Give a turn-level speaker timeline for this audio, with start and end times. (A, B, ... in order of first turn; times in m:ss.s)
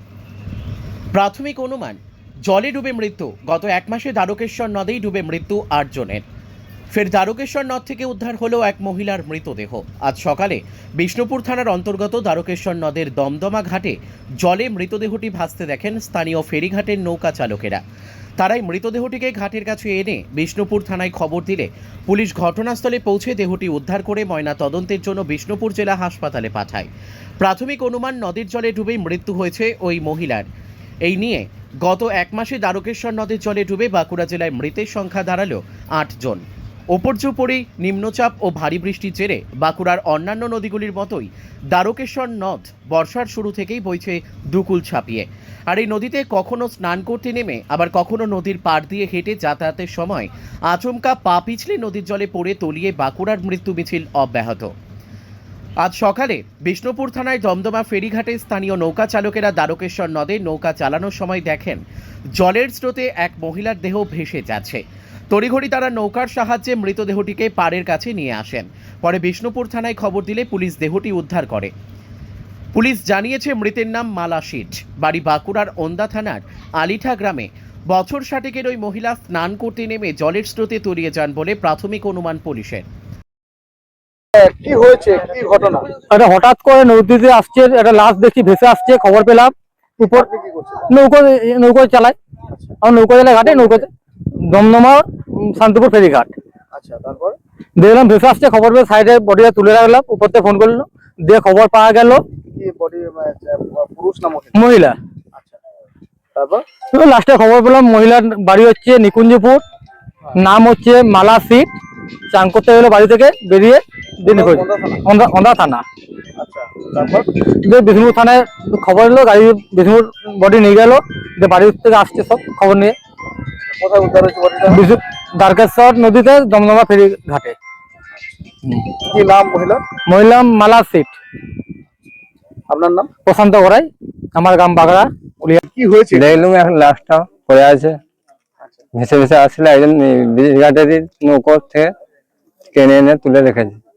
0:01.1-0:06.2 A
0:06.9-0:17.8 A
0:18.4-0:30.5 A
0:31.0-0:54.7 A
0:55.8-1:11.7 A
1:12.7-1:22.8 A
1:24.3-1:25.9 B
1:26.1-1:30.2 C
1:30.0-1:30.8 B
1:30.9-1:32.1 C
1:32.8-1:36.3 C
1:33.4-1:33.8 B
1:36.7-1:37.4 B
1:37.8-1:42.2 C
1:42.5-1:44.6 B
1:44.5-1:45.0 C
1:45.3-1:45.6 B
1:46.3-1:46.6 B
1:46.9-1:49.6 C
1:50.3-1:51.7 C
1:52.3-1:55.8 C
1:54.3-1:55.0 B
1:56.4-1:57.3 B
1:57.5-2:02.9 C
2:03.7-2:04.8 B
2:04.7-2:07.6 C
2:09.0-2:09.8 B
2:10.1-2:11.1 C
2:12.7-2:13.1 B
2:13.2-2:15.6 C
2:15.6-2:16.3 B
2:16.1-2:18.0 D
2:18.9-2:21.9 D
2:22.7-2:23.8 D